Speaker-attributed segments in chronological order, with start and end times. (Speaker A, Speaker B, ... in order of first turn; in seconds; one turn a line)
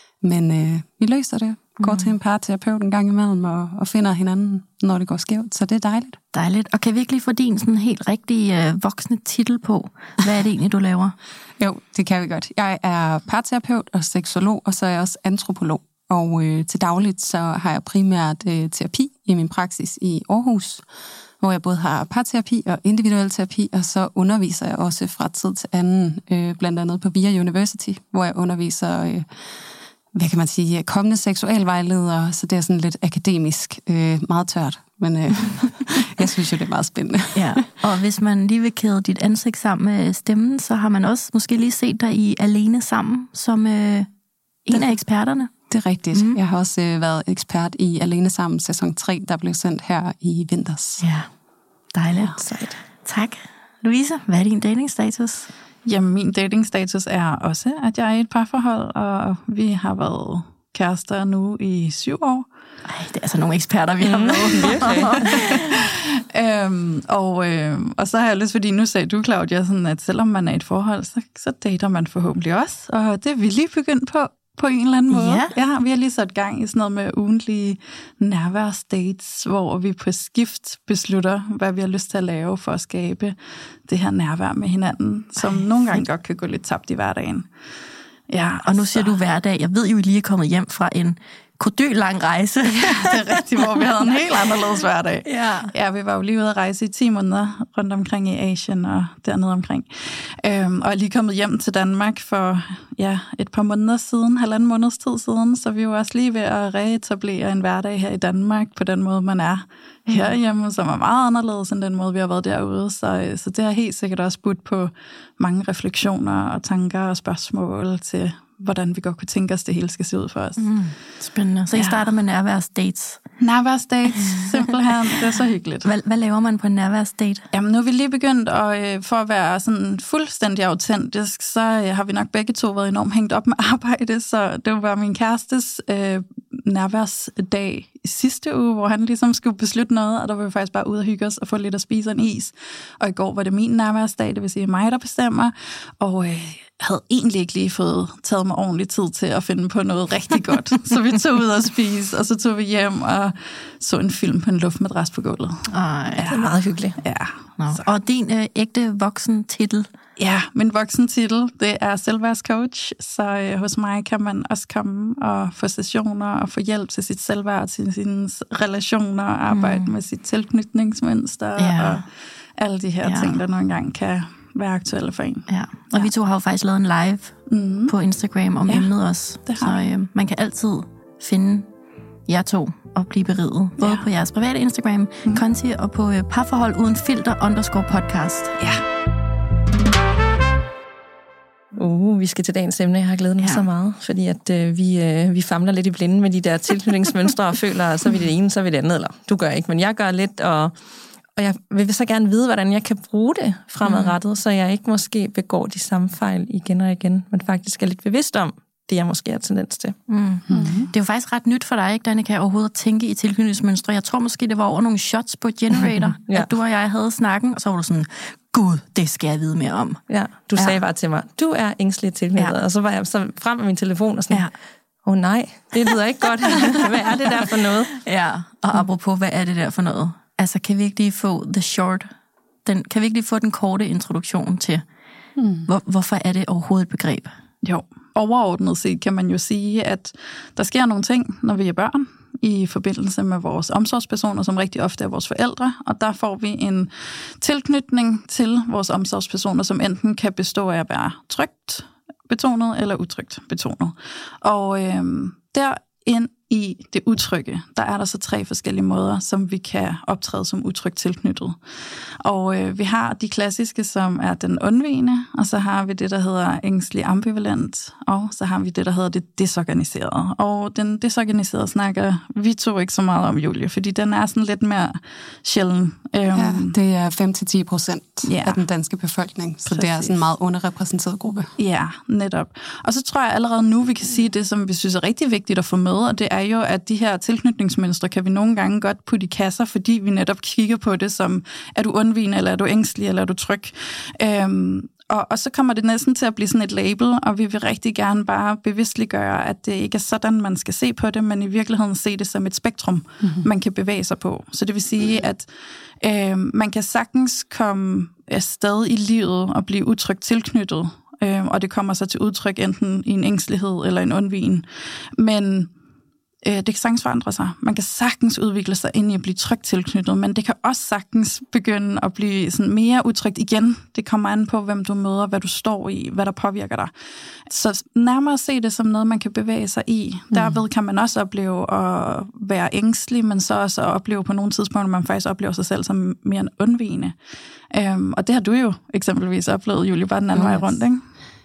Speaker A: 0.2-6.2
Speaker B: 6.3-11.2
Speaker A: 11.6-20.9
Speaker A: 21.4-29.3
Speaker A: 30.1-37.6
Speaker B: 37.4-44.1
Speaker B: 44.7-45.5
Speaker A: 45.7-51.0
Speaker B: 46.1-46.4
Speaker B: 51.0-51.3
Speaker B: 51.9-52.4
Speaker C: 52.4-52.8
Speaker B: 53.0-55.5
Speaker D: 55.9-62.5
Speaker B: 62.9-65.6
Speaker C: 64.0-65.5
Speaker D: 65.2-87.5
Speaker B: 75.1-75.5
Speaker B: 85.4-85.7
Speaker D: 88.3-89.2
Speaker B: 88.6-93.8
Speaker D: 92.7-120.7
Speaker B: 95.2-95.7
Speaker B: 110.1-110.4
Speaker B: 120.6-123.2
Speaker D: 121.7-122.1
Speaker D: 123.4-125.9
Speaker B: 124.2-124.6
Speaker B: 125.8-127.5
Speaker D: 127.5-155.7
Speaker B: 155.7-156.4
Speaker D: 156.2-156.5
Speaker C: 156.3-157.0
Speaker D: 157.0-157.9
Speaker B: 157.6-159.9
Speaker D: 160.2-172.1
Speaker B: 169.5-169.9
Speaker B: 171.6-172.1
Speaker D: 172.6-176.1
Speaker B: 173.0-173.4
Speaker B: 175.5-177.4
Speaker D: 177.5-178.0
Speaker B: 177.9-181.7
Speaker D: 179.5-179.8
Speaker B: 182.3-188.6
Speaker D: 183.8-184.1
Speaker D: 188.6-188.8
Speaker C: 191.7-200.8
Speaker B: 193.4-193.7
Speaker C: 201.4-210.0
Speaker B: 203.9-204.1
Speaker B: 210.1-220.0
Speaker A: 210.5-210.9
Speaker D: 210.5-210.9
Speaker C: 215.7-216.5
Speaker C: 220.1-224.5
Speaker C: 225.1-227.9
Speaker B: 227.9-232.1
Speaker B: 232.7-234.8
Speaker A: 235.4-235.7
Speaker B: 235.7-237.3
Speaker D: 237.6-261.6
Speaker D: 262.2-276.7
Speaker A: 276.3-281.5
Speaker D: 278.3-278.6
Speaker D: 279.7-280.1
Speaker D: 281.6-305.5
Speaker A: 303.2-303.5
Speaker D: 306.0-315.7
Speaker D: 316.4-326.9
Speaker D: 327.5-337.2
Speaker D: 337.7-341.0
Speaker A: 340.3-340.7